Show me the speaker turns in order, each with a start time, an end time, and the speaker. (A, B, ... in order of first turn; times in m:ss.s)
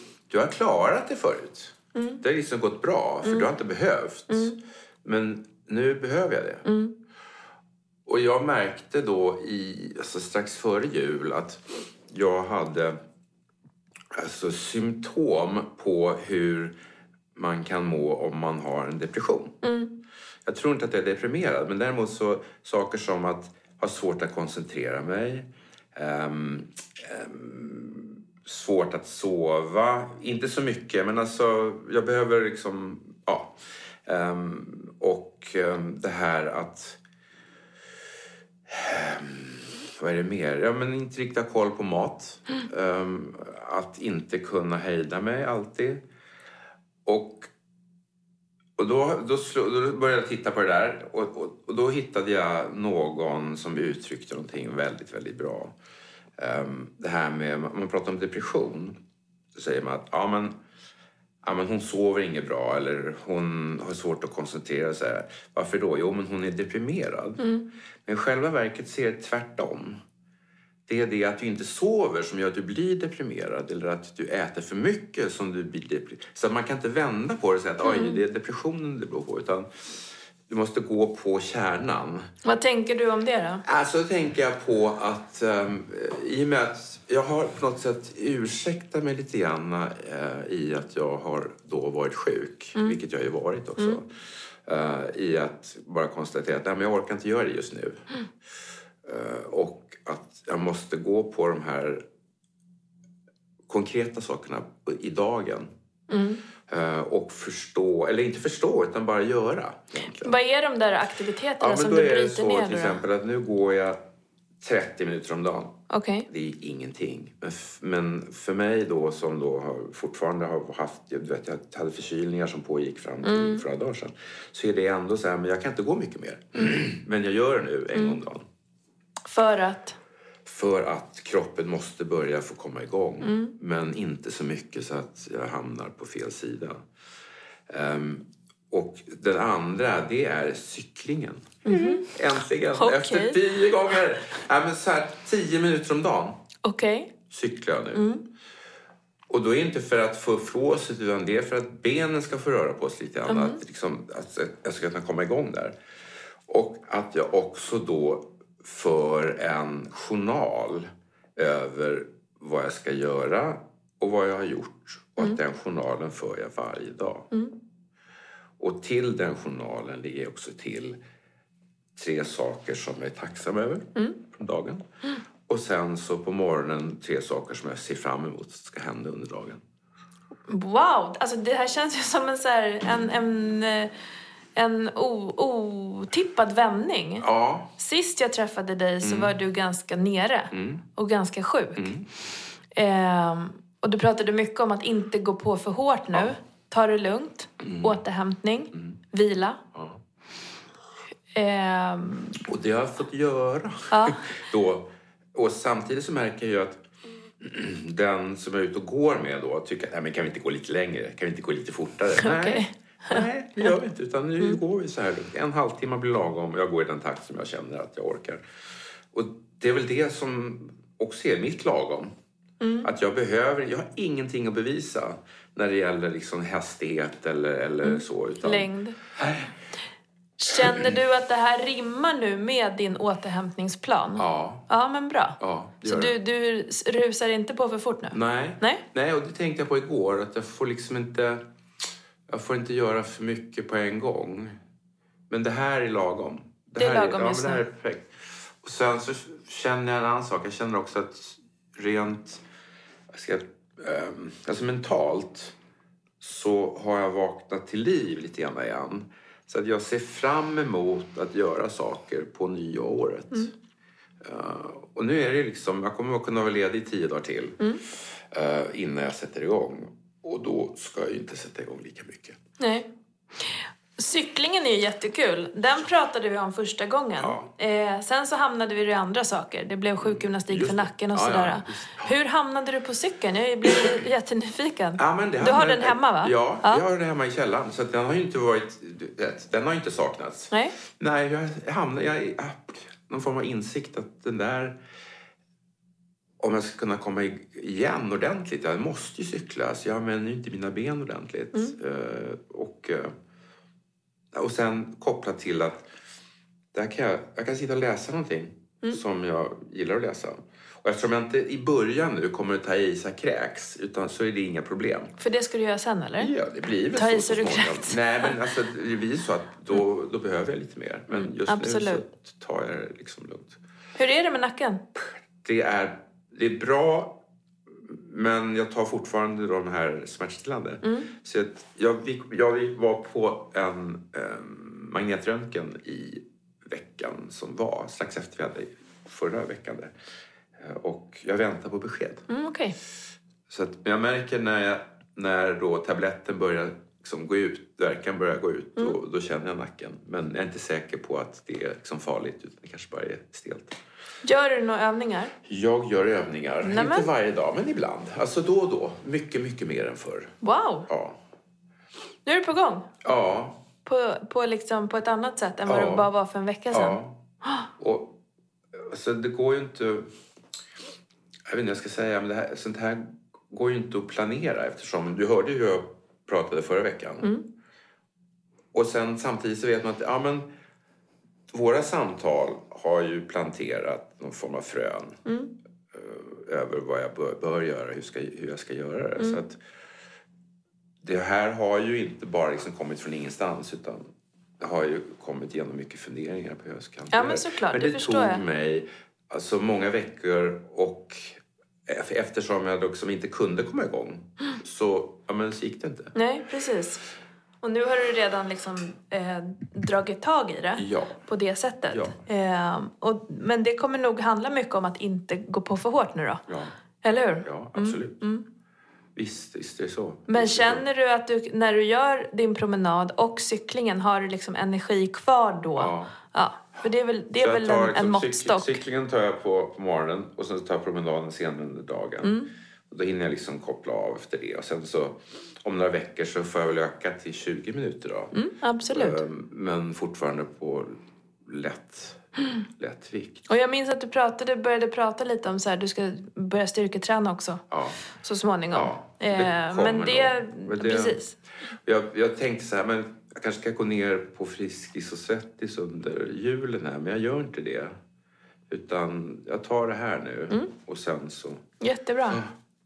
0:00.3-0:06.6 A
0:01.9-0:02.2 B
0:04.3-0:04.6 B
0:06.6-0:06.9 B
0:08.0-0:13.0 A
0:14.1-0:16.7 A
0:17.3-0:19.6 A
0:19.6-0:19.9 B
0:20.4-0:37.0 A
0:38.7-0:46.0 A
0:47.0-0:47.5 A
0:48.8-0:55.7 A
0:56.4-0:59.0 A
0:59.5-1:00.5 A
1:01.4-1:07.5 A
1:07.4-1:07.6 B
1:08.0-1:10.0 A
1:10.9-1:22.3 A
1:17.8-1:18.2 B
1:22.4-1:23.6 B
1:23.6-1:38.1 A
1:39.0-1:42.0 A
1:43.7-1:45.7 A
1:46.1-1:46.4 B
1:46.7-1:50.3 A
1:50.2-1:53.0 B
1:51.6-1:54.0 A
1:54.6-2:08.4 A
1:55.9-1:56.3 B
2:03.2-2:03.6 B
2:07.9-2:08.2 B
2:09.2-2:10.0 B
2:10.4-2:16.8 A
2:13.2-2:13.5 B
2:17.7-2:26.4 A
2:21.6-2:22.1 B
2:22.8-2:23.4 B
2:26.6-2:27.1 B
2:27.3-2:28.0 A
2:27.9-2:28.2 B
2:29.3-2:35.7 A
2:33.3-2:33.6 B
2:36.5-2:47.3 A
2:48.6-2:51.0 A
2:52.0-2:54.8 A
2:55.5-2:59.6 A
3:00.5-3:03.9 B
3:04.5-3:07.2 B
3:07.2-3:07.7 A
3:07.8-3:11.9 B
3:09.0-3:09.3 A
3:10.5-3:10.8 A
3:11.8-3:12.1 A
3:12.7-3:19.6 B
3:17.6-3:18.0 A
3:19.7-3:20.0 A
3:21.3-3:22.4 B
3:22.4-3:26.8 A
3:23.9-3:24.2 B
3:27.4-3:38.4 A
3:32.2-3:33.7 B
3:39.1-3:42.1 A
3:42.6-3:42.9 B
3:42.8-3:49.5 A
3:47.8-3:49.0 B
3:50.4-3:58.8 B
3:50.6-3:50.9 A
3:54.2-3:54.7 A
3:55.4-3:56.2 A
3:58.1-4:01.4 A
4:02.3-4:04.6 A
4:05.3-4:12.4 A
4:06.8-4:07.6 B
4:13.1-4:15.5 A
4:16.2-4:23.5 A
4:24.2-4:32.4 A
4:32.6-4:32.9 B
4:33.5-4:46.8 B
4:37.2-4:37.5 A
4:40.0-4:42.1 A
4:45.0-4:54.8 A
4:56.4-5:03.1 A
5:04.3-5:05.9 A
5:06.7-5:15.1 A
5:15.2-5:16.3 B
5:16.2-5:23.6 A
5:16.9-5:18.4 B
5:21.1-5:22.0 B
5:24.0-5:24.8 B
5:25.0-5:27.2 A
5:27.8-5:39.9 A
5:30.8-5:31.1 B
5:40.6-5:42.2 A
5:42.3-5:42.8 B
5:43.5-5:53.8 A
5:54.2-5:55.3 B
5:55.4-6:00.4 A
5:56.6-5:57.1 B
6:00.4-6:00.9 B
6:00.9-6:01.2 A
6:02.2-6:02.9 B
6:03.0-6:03.6 A
6:03.8-6:07.0 B
6:05.6-6:06.1 A
6:06.7-6:07.2 A
6:07.8-6:08.2 A
6:08.7-6:10.1 A
6:11.5-6:17.4 A
6:18.7-6:20.5 A
6:21.5-6:25.2 A
6:25.2-6:25.5 B
6:25.9-6:29.6 A
6:31.0-6:34.1 A
6:34.6-6:46.1 A
6:37.1-6:38.4 B
6:46.1-6:47.0 B
6:47.6-6:56.4 B
6:50.8-6:51.2 A
6:51.9-6:52.2 A
6:56.5-6:56.7 A
6:57.0-6:58.4 B
6:57.4-6:58.2 A
6:59.2-7:00.8 A
7:00.3-7:08.8 B
7:05.8-7:06.1 A
7:07.4-7:18.4 A
7:12.2-7:12.5 B
7:18.3-7:19.2 B
7:18.9-7:23.4 A
7:23.5-7:31.4 B
7:27.7-7:28.0 A
7:28.7-7:31.2 A
7:31.8-7:37.9 A
7:38.7-7:41.6 A
7:41.8-7:42.4 B
7:42.3-7:42.5 A